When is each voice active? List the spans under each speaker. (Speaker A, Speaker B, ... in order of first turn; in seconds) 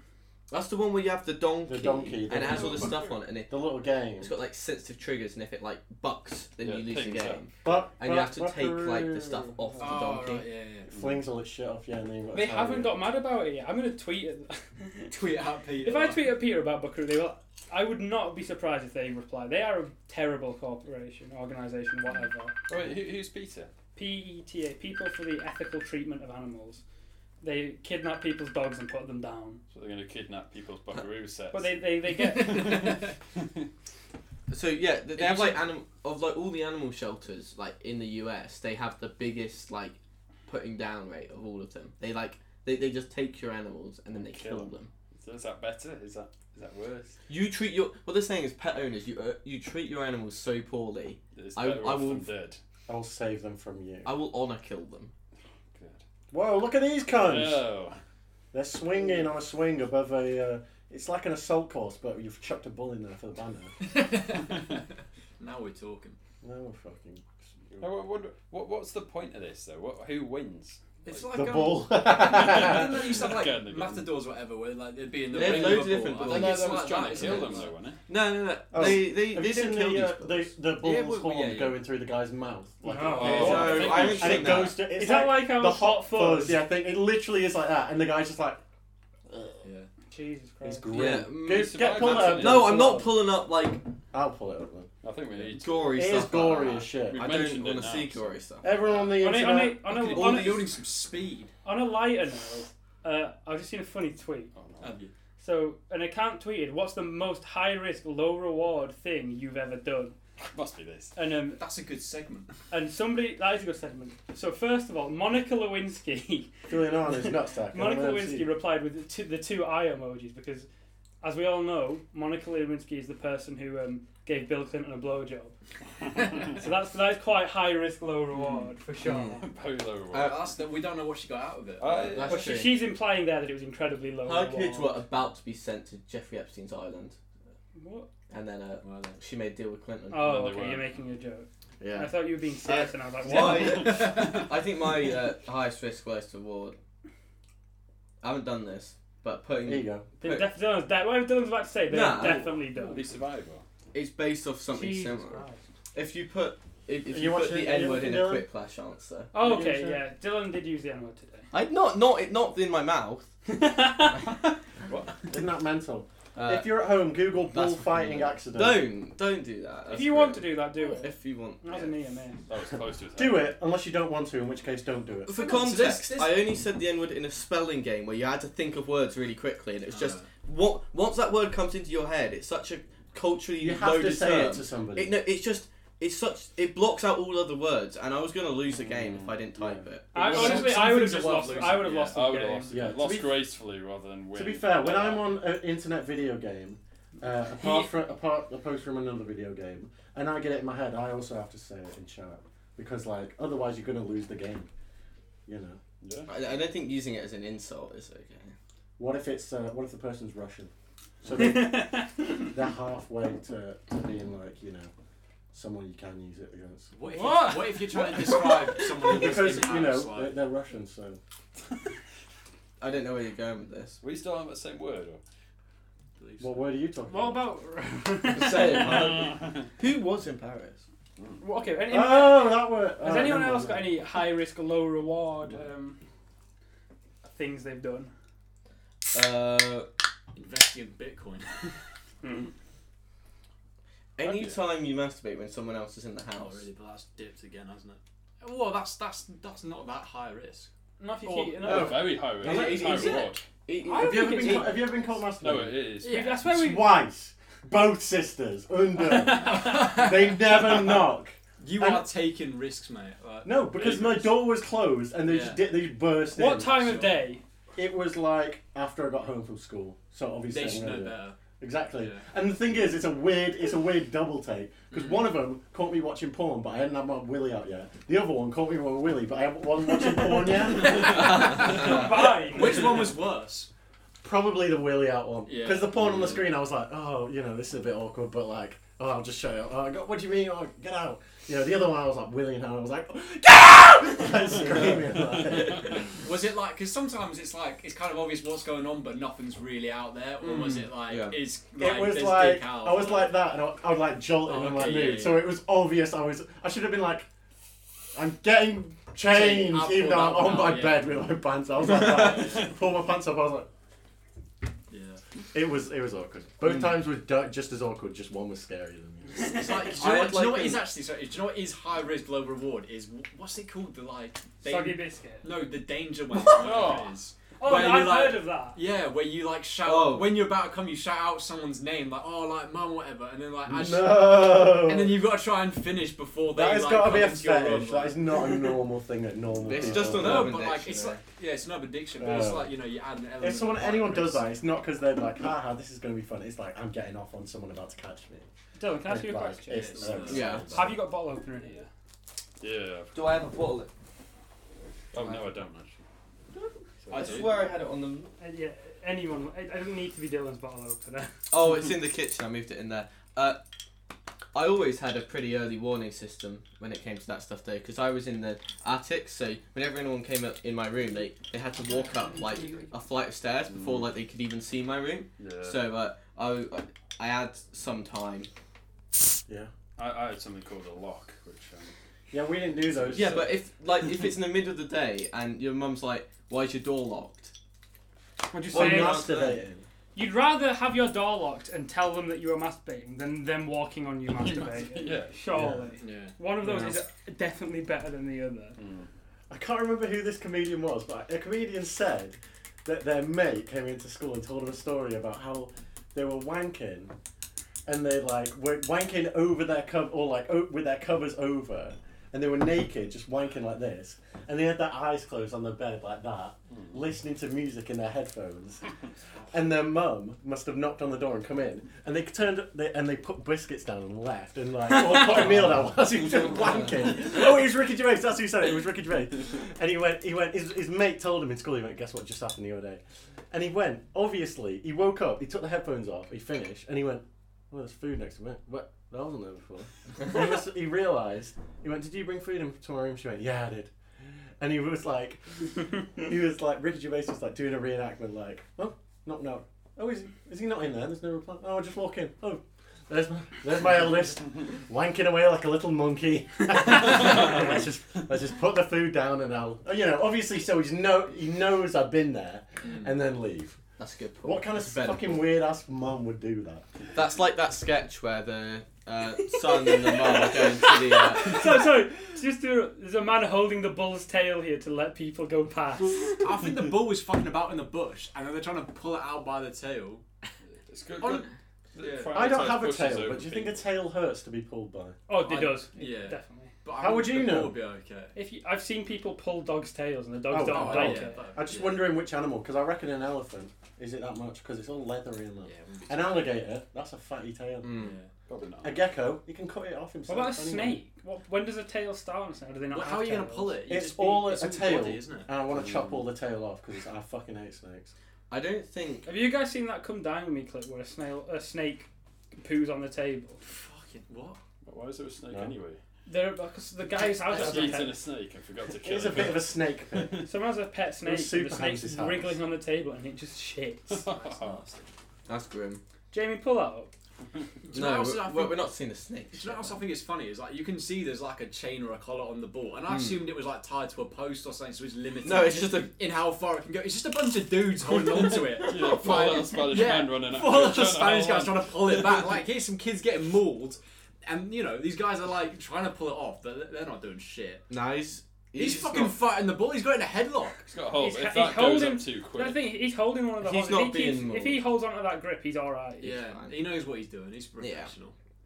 Speaker A: 0.5-3.6, 4.2-10.4, 34.5-44.9, 47.3-52.3, 54.0-55.1, 75.3-80.5, 83.2-84.8, 90.9-93.8, 95.5-98.7, 100.1-100.5, 128.4-129.4, 130.1-130.3, 132.0-132.8, 134.2-137.2, 138.3-140.3, 142.7-146.8, 148.2-150.5, 151.9-152.5, 153.9-159.3, 161.5-163.3, 166.3-166.8, 167.5-171.9, 175.3-190.1, 206.3-208.5, 222.8-224.0, 228.3-230.8, 239.1-239.9, 244.2-246.7, 251.8-254.8, 300.4-301.4, 316.6-316.9, 319.9-320.8, 329.8-330.4, 339.6-341.2, 350.3-350.9, 353.1-353.9, 355.1-355.5, 356.5-358.3, 361.5-363.6, 364.5-378.5, 383.1-387.5, 388.7-389.6, 464.0-465.4, 467.1-471.7, 497.8-498.2, 508.5-509.3, 525.5-526.0, 527.9-530.0, 533.1-533.4, 535.4-536.1, 538.1-539.7, 547.9-549.4, 553.6-554.8, 556.2-556.8, 557.8-558.1
Speaker B: 1.6-3.0, 3.5-4.3, 7.6-9.8, 10.9-13.0, 52.9-54.1, 56.3-57.6, 58.5-63.7, 66.4-67.9, 71.3-73.0, 78.7-88.6, 90.6-93.2, 94.1-94.9, 95.9-97.3, 98.6-99.8, 116.7-118.5, 141.8-142.2, 149.6-150.1, 157.1-158.4, 159.3-160.0, 165.3-168.9, 173.2-175.3, 183.6-185.1, 189.6-189.8, 192.7-193.4, 194.3-204.7, 205.5-205.8, 209.0-210.7, 211.2-214.9, 215.5-216.9, 219.0-221.2, 226.4-227.4, 231.9-233.9, 251.7-253.2, 253.8-255.9, 256.4-262.1, 263.4-266.9, 267.8-281.4, 284.2-296.2, 301.8-307.3, 308.1-313.7, 315.5-319.8, 333.7-335.2, 336.5-340.6, 342.2-342.7, 343.4-348.5, 349.0-351.0, 382.3-383.5, 388.7-389.8, 395.5-395.9, 399.5-407.1, 407.9-418.8, 419.5-443.9, 444.6-463.8, 464.4-466.9, 482.3-485.2, 487.0-487.8, 490.5-497.9, 498.8-501.0, 503.9-508.1, 518.9-520.4, 521.2-522.5
Speaker C: 6.6-7.8, 10.9-11.2, 22.7-23.7, 29.7-33.7, 44.2-47.1, 51.3-52.6, 55.7-56.0, 57.1-58.0, 67.8-71.3, 72.1-74.1, 75.3-78.0, 83.1-84.4, 91.4-93.0, 95.0-96.0, 97.1-98.3, 104.5-105.0, 110.4-111.1, 129.3-130.4, 131.8-132.6, 140.2-140.9, 143.3-144.4, 152.2-153.6, 164.8-165.2, 172.5-173.5, 188.7-189.4, 190.4-190.7, 191.8-195.3, 206.0-206.3, 224.0-225.2, 228.9-229.6, 231.2-231.4, 244.2-244.6, 251.6-253.4, 255.4-256.4, 286.1-286.3, 295.3-296.0, 326.6-327.1, 352.6-353.3, 355.1-356.0, 357.1-357.6, 373.7-374.1, 375.4-375.8, 380.0-381.9, 394.3-395.6, 398.8-399.1, 480.9-483.8, 498.5-499.0, 505.7-506.3, 514.8-516.0, 517.3-520.5, 524.1-524.8, 538.8-542.5, 550.9-552.8
Speaker D: 9.8-10.9, 15.1-16.3, 32.2-33.1, 35.1-35.7, 63.8-64.8, 65.4-66.2, 71.0-77.7, 80.8-81.8, 89.6-89.9, 98.8-99.1, 99.8-101.5, 104.8-105.1, 111.6-112.5, 130.1-132.2, 138.8-139.2, 143.8-144.4, 175.3-176.4, 179.9-180.2, 190.1-192.2, 197.6-197.9, 216.9-220.4, 226.2-226.7, 240.3-241.6, 246.3-250.7, 251.2-251.7, 256.0-256.4, 259.3-261.0, 261.6-264.4, 265.2-265.6, 266.6-267.2, 270.5-271.4, 271.9-272.2, 274.9-275.3, 280.6-283.7, 285.5-286.1, 296.1-303.3, 304.4-305.4, 309.3-311.1, 311.9-312.7, 314.9-315.2, 319.4-338.8, 339.8-344.5, 349.7-350.6, 396.0-396.3, 462.8-463.2, 476.4-480.2, 481.2-481.5, 482.0-482.5, 485.4-488.4, 490.7-492.0, 495.6-496.5, 498.0-498.3, 502.9-505.5, 513.6-514.6, 524.4-525.1, 527.8-528.9, 529.5-547.9, 548.8-550.9, 556.2-558.3
Speaker E: 12.3-15.2, 15.8-22.6, 23.9-26.8, 27.4-29.6, 31.5-33.0, 82.8-86.6, 90.1-91.0, 99.2-100.7, 101.6-104.5, 105.4-110.2, 111.1-111.6, 112.7-120.7, 121.2-125.5, 126.2-129.4, 132.2-135.0, 137.7-138.1, 140.1-143.9, 150.2-153.1, 154.7-155.6, 159.3-161.5, 163.5-164.3, 169.9-172.4, 190.1-192.7, 211.3-212.5, 217.0-218.8, 227.1-229.2, 231.4-236.0, 237.2-238.1, 242.2-242.5, 251.0-252.1, 253.8-254.8, 256.0-256.9, 259.1-259.8, 266.3-267.4, 281.2-283.1, 319.4-319.7, 324.6-325.5, 327.6-328.8, 348.8-351.9, 358.4-361.3, 388.5-389.3, 390.1-398.8, 424.9-425.2, 469.6-476.5, 485.3-486.7, 488.3-491.4, 500.3-503.8, 509.2-513.6, 516.2-518.2, 520.4-524.7, 526.3-527.1, 551.2-556.3